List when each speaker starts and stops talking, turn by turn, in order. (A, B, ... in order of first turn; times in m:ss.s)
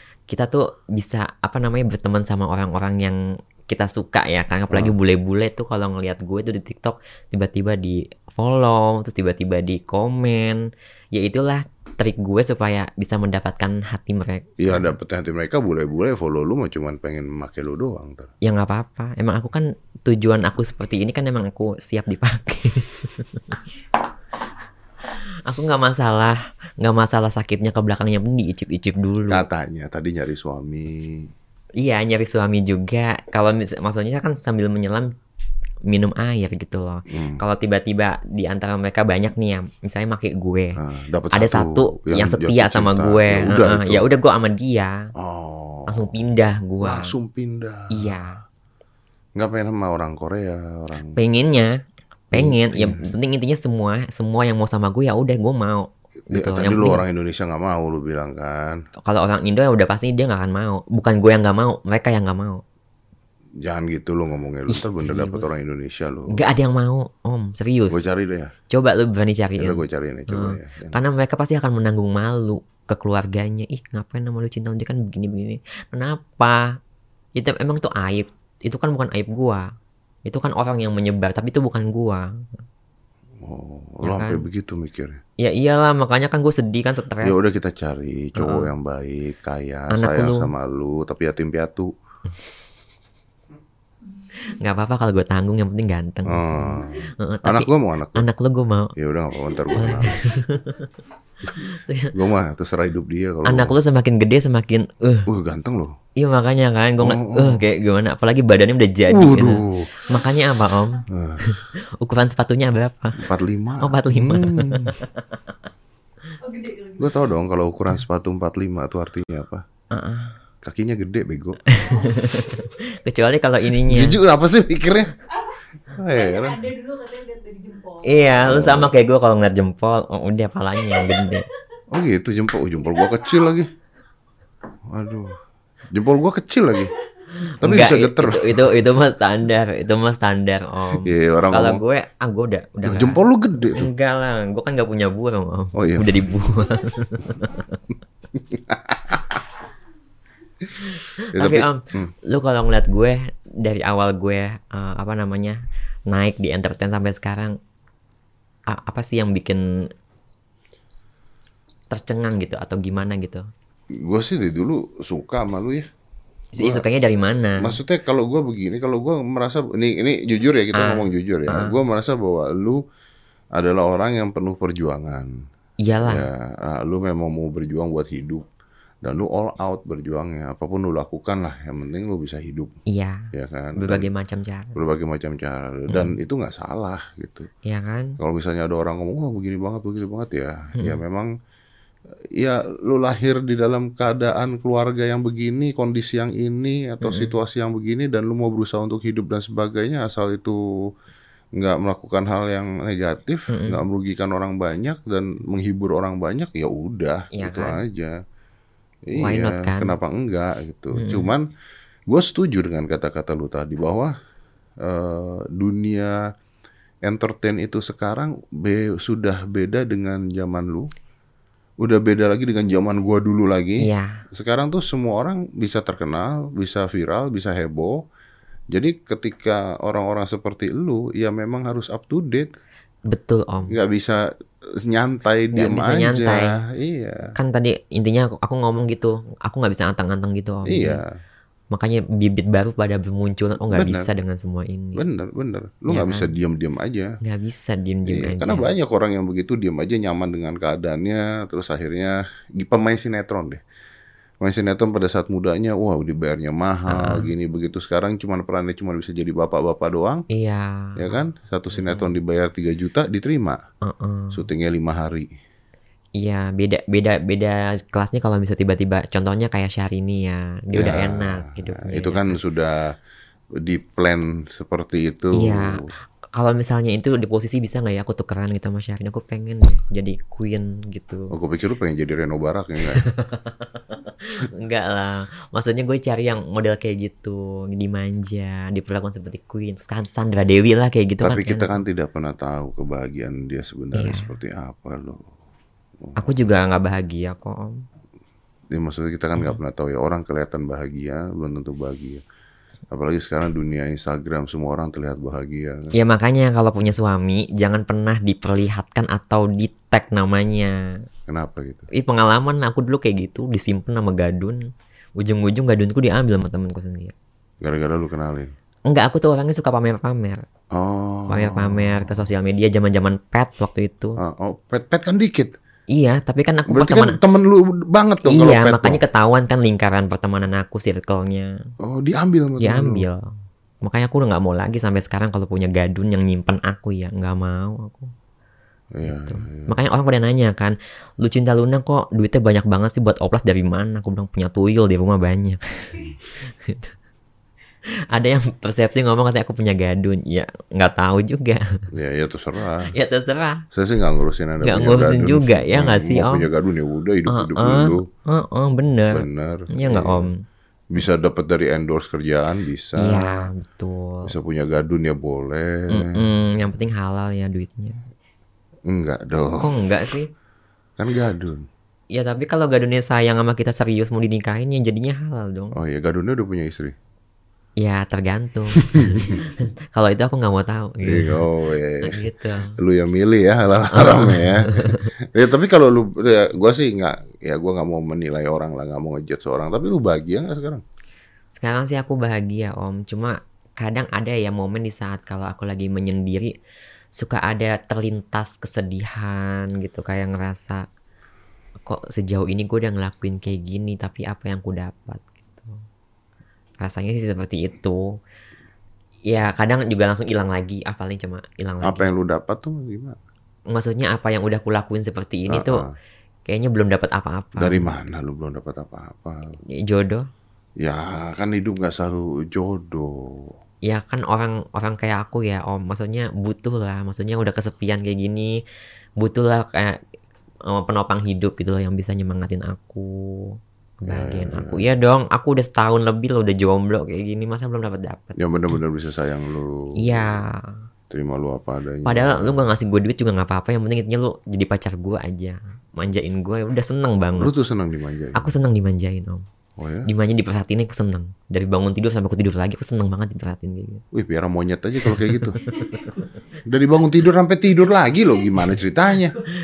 0:00.3-0:14.9 A
0:14.6-0:18.3 B
0:18.4-0:23.6 A
0:25.4-0:29.4 A
0:29.3-0:31.3 B
0:31.8-0:35.1 A
0:35.9-0:40.8 A
0:37.1-0:37.4 B
0:40.8-0:44.0 B
0:41.3-0:45.1 A
0:45.2-0:46.1 B
0:45.9-0:47.1 A
0:46.8-0:48.2 B
0:47.9-0:48.4 A
0:49.4-0:51.2 B
0:51.1-0:51.7 A
0:52.3-0:57.0 A
0:52.3-0:53.0 B
0:56.3-0:58.8 B
0:59.0-1:02.6 A
1:03.6-1:06.4 B
1:04.7-1:05.6 A
1:06.3-1:08.0 A
1:07.9-1:08.5 B
1:08.7-1:16.8 A
1:09.6-1:11.0 B
1:17.4-1:19.7 A
1:20.2-1:22.3 A
1:23.4-1:25.2 B
1:24.0-1:24.4 A
1:25.4-1:27.4 A
1:27.2-1:31.9 B
1:28.4-1:28.7 A
1:29.9-1:30.5 A
1:34.4-1:38.9 A
1:36.2-1:38.3 B
1:39.0-1:40.2 B
1:39.7-1:40.9 A
1:41.5-1:42.1 A
1:42.1-1:43.7 B
1:43.4-1:45.3 A
1:45.3-1:46.0 B
1:46.2-1:53.2 A
1:47.0-1:47.6 B
1:49.1-1:50.0 B
1:51.1-1:51.5 B
1:53.2-1:55.0 B
1:53.8-1:55.4 A
1:56.4-1:57.1 C
1:57.0-1:59.6 B
1:59.9-2:00.4 A
2:00.6-2:01.6 B
2:01.7-2:04.2 A
2:03.8-2:05.1 B
2:05.9-2:06.7 B
2:06.1-2:08.4 C
2:08.0-2:11.5 A
2:08.4-2:08.9 B
2:11.9-2:13.7 B
2:14.9-2:15.4 B
2:15.9-2:16.9 B
2:17.4-2:27.8 A
2:17.6-2:18.7 B
2:20.9-2:21.8 B
2:22.8-2:23.9 B
2:25.7-2:26.2 B
2:28.3-2:29.4 B
2:30.8-2:37.6 A
2:31.3-2:32.1 B
2:38.7-2:39.9 A
2:41.9-2:43.5 A
2:43.9-2:45.9 B
2:46.5-2:47.8 A
2:46.6-2:46.8 B
2:47.6-2:52.8 B
2:50.7-2:51.8 A
2:53.5-2:55.3 B
2:55.8-2:56.3 A
2:56.0-2:58.5 B
2:59.0-3:02.7 B
3:02.9-3:04.8 A
3:03.3-3:04.1 B
3:04.7-3:07.5 B
3:05.9-3:06.1 A
3:07.6-3:08.2 A
3:08.2-3:11.3 B
3:12.3-3:20.6 B
3:17.0-3:17.4 A
3:21.6-3:28.2 B
3:23.5-3:23.8 A
3:27.3-3:27.8 A
3:29.1-3:31.4 B
3:29.1-3:30.0 A
3:30.9-3:31.3 A
3:32.1-3:34.1 B
3:34.8-3:36.2 B
3:37.0-3:40.9 B
3:41.8-3:48.0 B
3:43.8-3:44.2 A
3:48.7-3:52.5 B
3:53.1-3:53.8 A
3:53.7-3:54.2 B
3:54.7-3:57.3 B
3:55.5-3:56.5 A
3:57.3-4:01.0 A
4:00.6-4:01.1 B
4:01.7-4:05.0 A
4:03.7-4:04.1 B
4:05.0-4:07.2 B
4:05.9-4:06.3 A
4:07.2-4:08.7 A
4:08.0-4:13.6 B
4:14.4-4:20.2 B
4:16.9-4:17.3 A
4:20.3-4:21.2 A
4:21.0-4:23.6 B
4:21.7-4:22.1 A
4:23.8-4:24.4 A
4:24.3-4:25.3 B
4:26.2-4:32.4 A
4:30.7-4:32.9 B
4:33.6-4:35.9 B
4:35.3-4:35.8 A
4:36.3-4:41.3 A
4:41.3-4:43.0 B
4:42.8-4:51.8 A
4:51.2-4:55.2 B
4:53.9-4:54.3 A
4:56.0-4:56.3 B
4:56.2-4:57.8 A
4:58.7-5:02.2 B
5:02.9-5:05.9 B
5:05.9-5:10.8 A
5:11.3-5:11.9 B
5:11.9-5:14.6 A
5:15.2-5:17.1 A
5:17.6-5:18.5 B
5:18.9-5:20.4 A
5:20.7-5:22.3 B
5:21.3-5:24.2 A
5:24.2-5:25.5 B
5:25.9-5:27.2 A
5:26.7-5:29.0 B
5:28.2-5:31.5 A
5:31.8-5:33.1 B
5:32.6-5:33.3 A
5:33.8-5:38.1 A
5:38.9-5:39.7 B
5:39.0-5:46.9 A
5:48.1-5:51.8 A
5:51.9-5:52.9 B
5:52.9-5:53.6 A
5:53.7-5:58.0 B
5:54.6-5:56.5 A
5:57.3-6:00.4 A
5:59.1-6:00.3 B
6:00.9-6:03.5 B
6:03.0-6:04.3 A
6:04.2-6:06.3 B
6:05.9-6:08.0 A
6:08.9-6:09.7 B
6:09.6-6:10.3 A
6:11.0-6:11.7 B
6:12.1-6:15.8 A
6:15.7-6:16.9 B
6:17.8-6:21.5 A
6:18.8-6:19.4 B
6:21.0-6:22.2 B
6:22.0-6:22.8 A
6:22.8-6:30.8 B
6:23.9-6:25.1 A
6:31.5-6:36.5 A
6:37.2-6:40.8 A
6:41.8-6:45.8 A
6:46.8-6:48.0 A
6:49.3-6:52.1 A
6:51.8-6:53.2 B
6:53.7-6:55.8 A
6:55.5-6:55.9 B
6:56.4-6:57.9 A
6:57.6-6:59.5 B
6:59.7-7:00.3 A
7:00.8-7:03.5 B
7:03.8-7:08.6 A
7:09.2-7:10.0 A
7:10.7-7:18.4 A
7:14.1-7:14.8 B
7:18.4-7:20.4 B
7:20.0-7:20.7 A
7:21.1-7:22.6 B
7:22.0-7:27.5 A
7:27.4-7:28.5 B
7:28.3-7:29.4 A
7:29.8-7:30.1 B
7:30.0-7:34.0 A
7:34.1-7:35.6 B
7:35.1-7:36.3 A
7:36.6-7:39.3 B